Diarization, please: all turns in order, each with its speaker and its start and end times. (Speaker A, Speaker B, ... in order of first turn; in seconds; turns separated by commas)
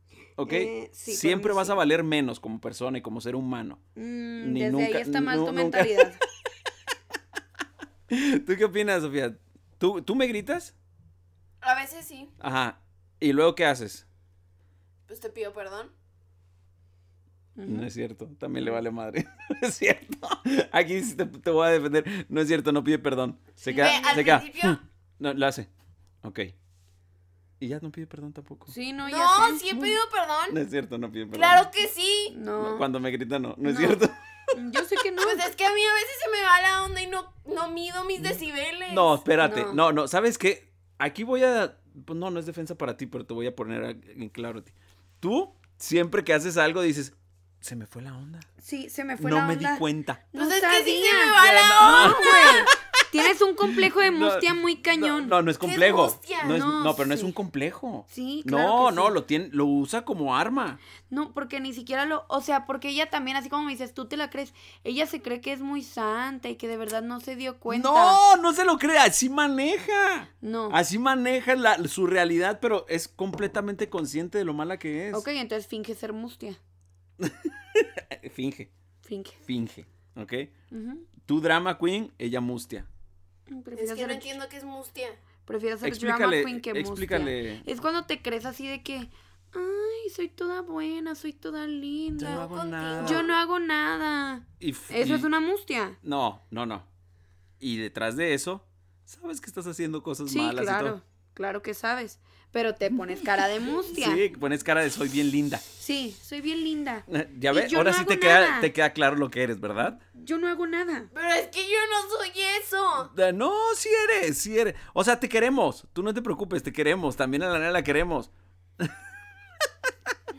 Speaker A: 0.4-3.8, Speaker B: 0.5-1.8, Speaker B: 4.0-6.2, Speaker A: 4.4-6.1, Speaker A: 8.1-10.7, Speaker C: 11.6-12.3, Speaker A: 12.4-14.0, Speaker C: 15.1-15.9, Speaker B: 17.6-17.9, Speaker A: 17.6-25.7, Speaker B: 23.6-24.3, Speaker C: 23.7-24.8, Speaker A: 26.2-26.5, Speaker A: 27.6-28.7, Speaker B: 28.7-29.9, Speaker C: 29.1-30.6, Speaker A: 30.5-31.6, Speaker C: 31.3-32.4, Speaker B: 32.3-32.9, Speaker A: 32.5-34.1, Speaker B: 33.6-34.0, Speaker B: 34.5-35.4, Speaker C: 35.2-39.2, Speaker A: 38.9-48.5, Speaker B: 39.4-39.8, Speaker B: 48.6-55.4, Speaker A: 49.2-50.2, Speaker C: 50.3-52.7, Speaker A: 51.3-52.8, Speaker A: 53.9-60.8, Speaker C: 55.6-56.7, Speaker B: 56.4-57.3, Speaker B: 58.1-59.1, Speaker B: 61.1-68.2, Speaker A: 67.7-75.2, Speaker B: 70.4-70.8, Speaker B: 75.1-76.6, Speaker A: 77.2-78.7, Speaker B: 79.0-79.4, Speaker A: 79.5-80.5, Speaker B: 80.7-81.1, Speaker A: 81.2-82.9, Speaker B: 83.5-84.3, Speaker C: 83.8-85.2, Speaker B: 85.5-96.0, Speaker A: 85.8-87.7, Speaker A: 92.2-93.2, Speaker C: 92.2-93.3, Speaker A: 94.6-95.3, Speaker A: 96.0-96.8, Speaker A: 97.6-101.0, Speaker B: 100.2-104.2, Speaker A: 103.9-105.6, Speaker B: 105.8-108.7, Speaker A: 107.1-110.0, Speaker B: 110.0-111.1, Speaker C: 111.1-113.1, Speaker A: 113.1-118.9